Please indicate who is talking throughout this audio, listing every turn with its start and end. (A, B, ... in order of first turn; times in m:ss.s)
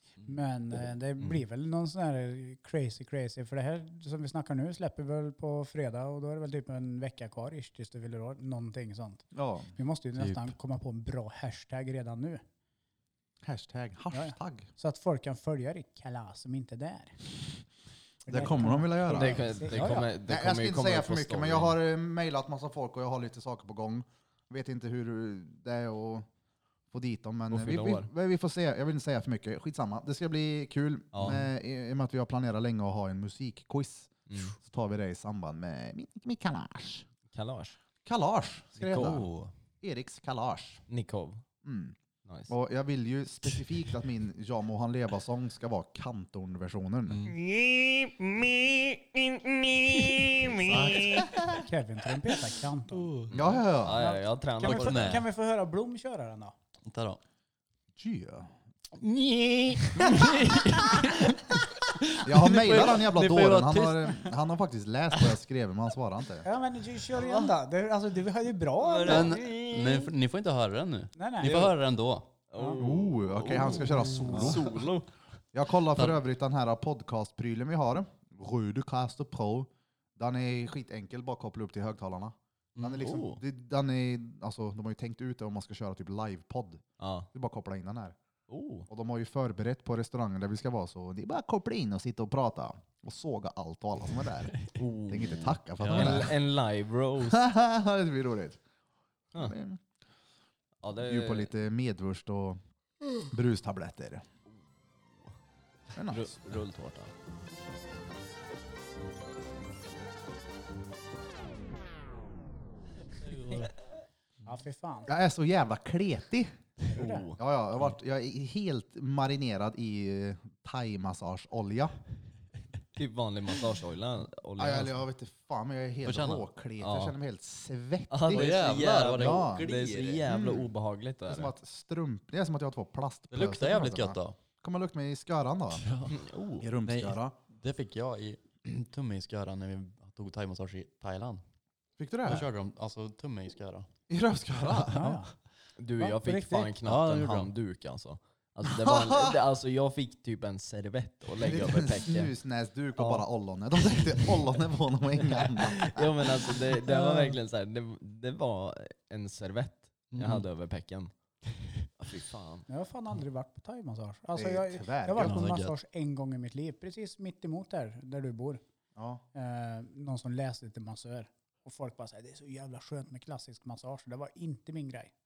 0:00.2-0:12.4 A
0:09.3-0:09.7 B
0:10.2-0:10.5 C
0:13.4-0:14.7 B
0:14.1-0:17.2 A
0:18.2-0:20.1 A
0:18.3-0:19.6 B
0:19.1-0:21.8 D
0:20.2-0:26.2 B
0:26.9-0:37.0 B
0:27.5-0:28.1 D
0:31.1-0:31.5 D
0:34.3-0:34.5 D
0:37.3-0:37.8 D
0:38.0-0:39.2 B
0:38.8-0:39.2 D
0:38.8-0:39.5 C
0:39.8-0:40.8 B
0:40.9-0:41.4 D
0:41.6-0:42.0 B
0:42.2-0:42.5 D
0:42.5-0:47.3 B
0:47.1-0:47.4 C
0:47.3-0:51.4 D
0:50.2-0:51.0 C
0:50.6-0:51.3 B
0:51.6-0:53.2 A
0:52.9-0:53.6 C
0:53.3-0:54.0 B
0:53.3-0:55.2 D
0:53.9-0:56.5 A
0:54.6-0:55.2 C
0:56.8-0:57.2 C
0:58.0-0:58.5 B
0:58.9-1:04.3 C
1:02.2-1:06.5 B
1:06.4-1:09.4 A
1:07.2-1:07.5 D
1:08.8-1:10.1 D
1:09.0-1:12.3 C
1:11.1-1:11.7 A
1:12.5-1:15.1 D
1:12.8-1:14.8 B
1:14.3-1:14.7 C
1:15.5-1:28.2 B
1:22.8-1:23.0 C
1:23.0-1:23.4 D
1:27.0-1:27.3 D
1:28.5-1:28.9 D
1:28.9-1:36.3 B
1:34.8-1:37.4 D
1:35.8-1:36.3 C
1:37.3-1:38.6 B
1:39.3-1:39.8 B
1:40.8-1:41.5 D
1:41.0-1:42.6 B
1:43.2-1:44.2 B
1:45.9-1:46.3 B
1:46.1-1:47.1 D
1:53.2-1:53.7 C
1:54.4-1:55.1 A
1:55.1-1:56.5 B
1:56.9-1:57.2 A
1:57.0-1:57.4 D
1:57.4-2:01.9 B
2:02.9-2:05.0 D
2:04.6-2:09.7 B
2:06.0-2:06.4 C
2:06.8-2:07.1 D
2:08.1-2:11.5 D
2:08.3-2:10.2 C
2:10.2-2:10.7 B
2:11.3-2:15.9 B
2:13.3-2:14.4 C
2:15.8-2:16.2 C
2:16.1-2:16.6 D
2:16.6-2:17.3 B
2:16.8-2:21.4 C
2:22.0-2:22.5 B
2:22.2-2:23.9 C
2:24.1-2:25.0 B
2:24.9-2:25.3 A
2:24.9-2:25.2 C
2:25.8-2:32.3 D
2:26.0-2:26.7 A
2:26.8-2:27.5 C
2:28.6-2:29.4 B
2:31.4-2:36.5 B
2:33.0-2:33.2 D
2:35.2-2:41.1 D
2:36.9-2:37.3 A
2:40.1-2:40.4 C
2:42.0-2:42.6 D
2:42.7-2:48.6 A
2:44.3-2:45.4 B
2:45.2-2:45.7 C
2:48.9-2:49.2 B
2:49.3-2:55.1 A